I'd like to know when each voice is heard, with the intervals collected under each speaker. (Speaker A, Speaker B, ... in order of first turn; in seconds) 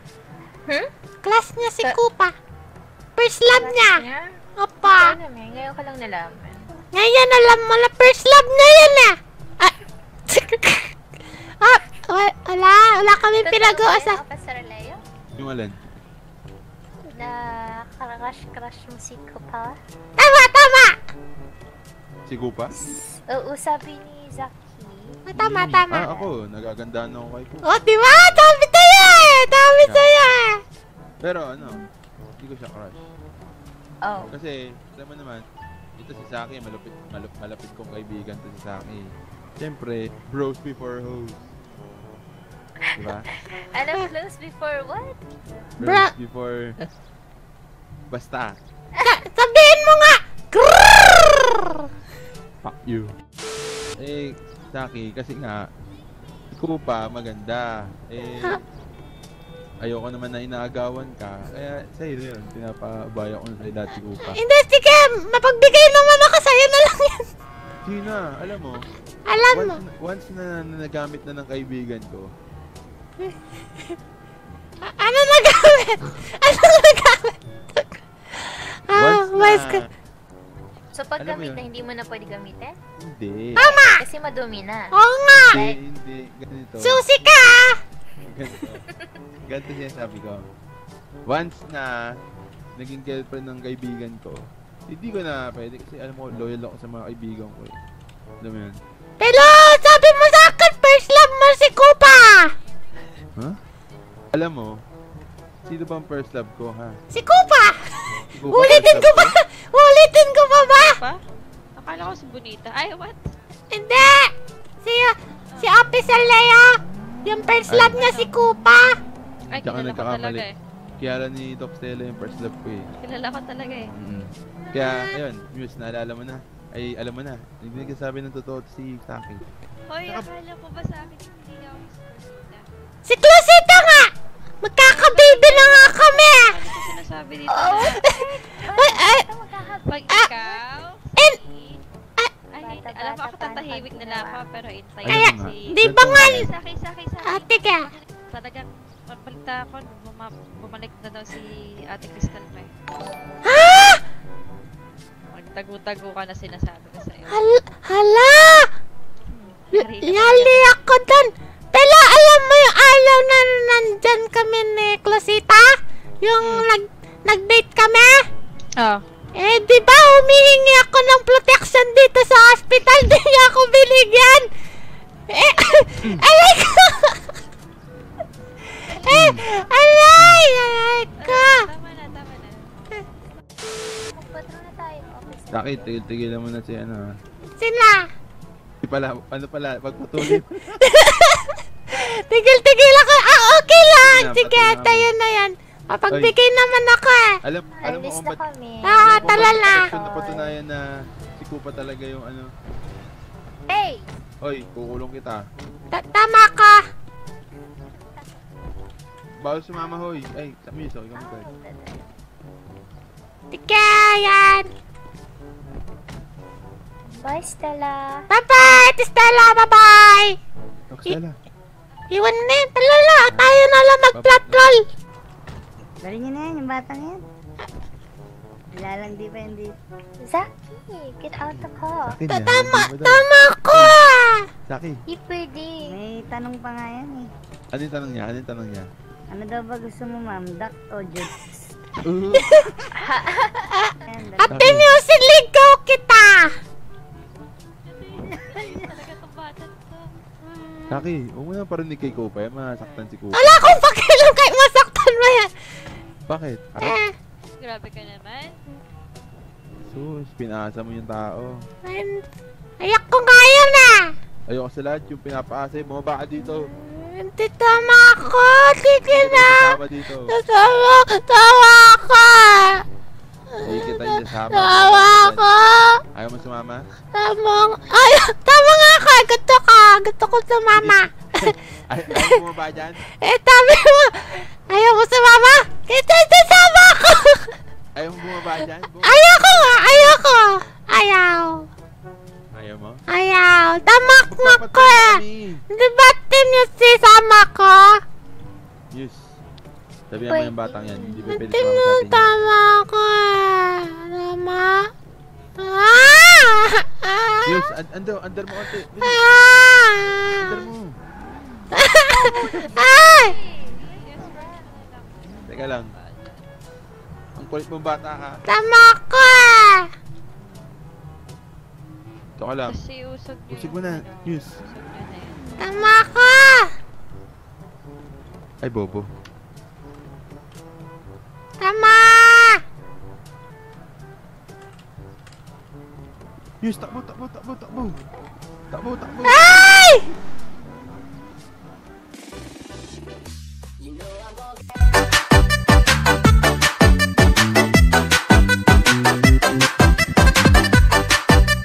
Speaker A: 1.2-2.3, 3.2-4.0, 4.6-5.2, 6.9-9.7, 10.3-10.8, 11.6-14.2, 20.2-20.9, 25.3-26.1, 27.6-30.6, 45.8-46.1, 49.0-51.9, 64.3-67.2, 69.3-69.8, 74.8-77.9, 78.4-79.8, 83.5-84.0, 84.9-85.6, 86.8-87.8, 99.2-102.5, 107.1-111.0, 113.7-114.3, 114.8-116.7, 117.2-118.9, 124.7-125.2, 133.0-134.1, 134.6-136.5, 137.5-139.3, 140.1-140.6, 145.1-146.5, 147.2-147.9, 153.4-154.0, 157.3-158.7, 159.8-165.7, 166.2-168.2, 169.3-174.5, 175.3-177.3, 179.0-181.7, 187.6-188.1, 190.2-197.4, 198.8-199.9, 205.9-206.8, 213.5-214.7, 218.3-220.4, 222.1-224.8, 232.3-234.5, 242.3-242.6, 243.8-246.5, 253.3-255.5, 256.8-257.1, 261.8-262.2, 262.8-264.1, 266.8-269.8, 270.3-272.8, 273.5-276.0, 277.1-281.1, 282.1-282.4, 283.1-287.5, 289.0-291.7, 293.1-298.0, 301.3-304.9, 305.6-307.7, 309.0-310.6, 311.7-313.3, 318.5-319.9, 325.6-326.7, 331.6-332.6, 339.3-340.1
Speaker B: 3.5-6.7, 13.4-15.0, 17.1-19.8, 23.3-25.2, 34.0-34.3, 42.9-43.2, 43.7-45.2, 80.9-82.8, 83.7-84.9, 85.5-85.8, 88.5-88.8, 138.1-140.2, 142.6-144.4, 184.1-185.9, 197.8-200.6, 203.7-204.1, 207.9-208.3, 211.1-212.1, 217.2-218.3, 230.2-232.1, 235.1-235.8, 243.0-243.7, 300.3-301.4, 313.7-314.4
Speaker C: 15.4-15.8, 22.2-22.7, 25.3-27.7, 31.2-31.8, 32.4-33.0, 34.3-35.4, 36.0-41.5, 43.0-43.3, 45.8-46.6, 48.1-48.6, 52.6-53.1, 54.0-55.7, 56.5-58.5, 59.8-64.4, 67.8-68.8, 69.5-72.3, 78.9-79.8, 81.2-81.7, 83.0-83.7, 85.4-87.0, 88.3-88.8, 89.5-90.5, 91.3-91.9, 92.8-97.8, 98.4-98.8, 104.3-104.7, 105.6-107.0, 108.3-109.3, 117.7-118.0, 119.6-120.5, 121.0-122.9, 124.0-129.4, 145.0-146.5, 179.1-179.4, 180.2-180.4, 185.5-187.1, 188.8-190.6, 194.0-195.1, 196.1-196.3, 197.4-198.4, 199.0-200.8, 201.4-202.5, 204.4-205.4, 209.4-211.5, 220.9-221.4, 223.3-223.6, 224.1-224.8, 231.5-234.0, 234.7-235.0, 237.7-238.9, 242.0-242.9, 244.6-244.9, 250.9-253.7, 256.3-257.0, 259.9-261.5, 264.5-266.6, 269.1-270.3, 273.6-275.5, 276.1-276.8, 280.7-281.1, 281.9-283.0, 287.9-290.2, 292.5-293.0, 294.1-295.6, 298.9-299.4, 300.1-302.3, 307.5-309.2, 310.4-310.9, 315.4-315.9, 317.4-318.4, 322.4-322.8, 323.5-324.6, 328.6-329.1, 336.6-338.0, 338.7-339.6
Speaker D: 110.7-111.2, 111.8-113.2, 117.9-118.3, 119.5-120.5, 123.0-123.9, 129.9-132.7, 134.8-138.0, 139.9-141.8, 142.5-152.7, 155.3-157.4, 159.3-160.8, 166.4-166.7, 168.8-169.0, 181.2-182.7, 247.8-250.1, 257.6-258.6, 312.8-316.5, 322.6-325.5
Speaker E: 226.0-227.2, 228.7-229.7, 235.8-237.3, 239.3-241.6, 244.1-244.9